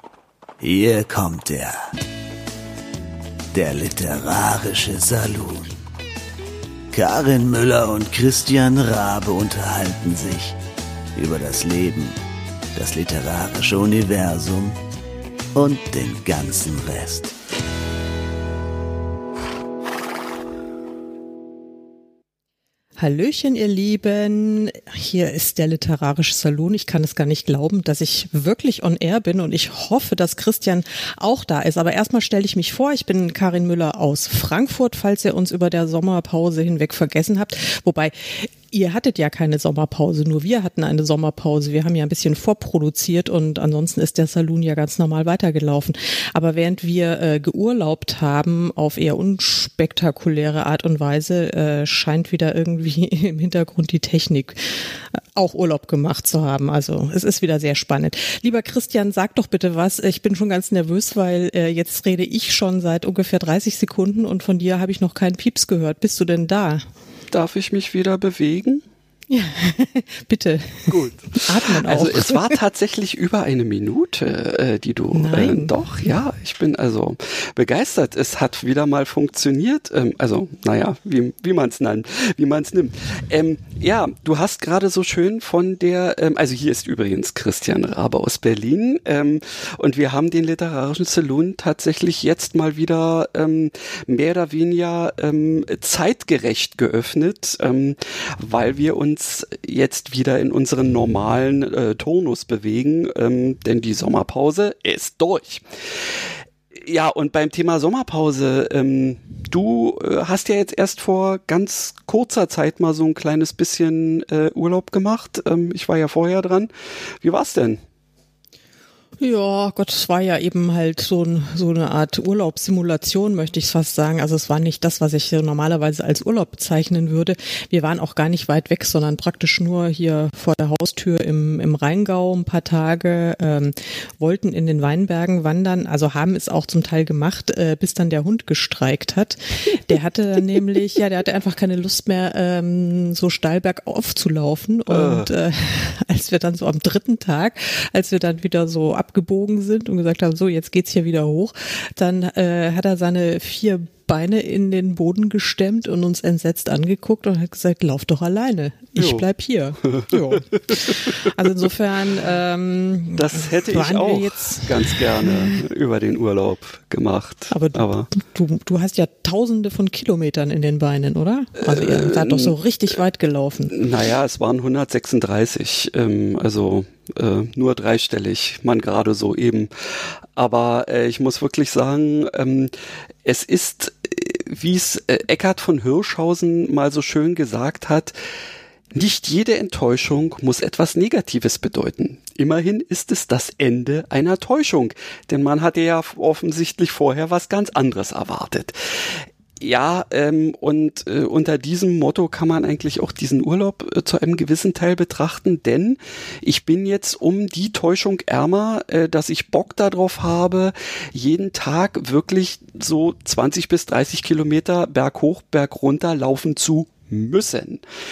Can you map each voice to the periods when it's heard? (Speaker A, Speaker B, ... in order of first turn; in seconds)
Speaker A: 0.6-1.8, 3.5-5.7, 6.9-10.6, 11.1-12.1, 12.7-14.7, 15.5-17.3
Speaker B: 23.0-66.9, 69.3-72.5, 75.1-75.7, 119.2-165.6, 167.5-173.8
Speaker C: 67.3-68.8, 70.9-106.1, 106.7-117.8, 144.9-145.3, 158.9-159.2, 159.8-160.8, 163.2-168.1, 171.6-172.5, 173.7-188.1, 188.9-217.8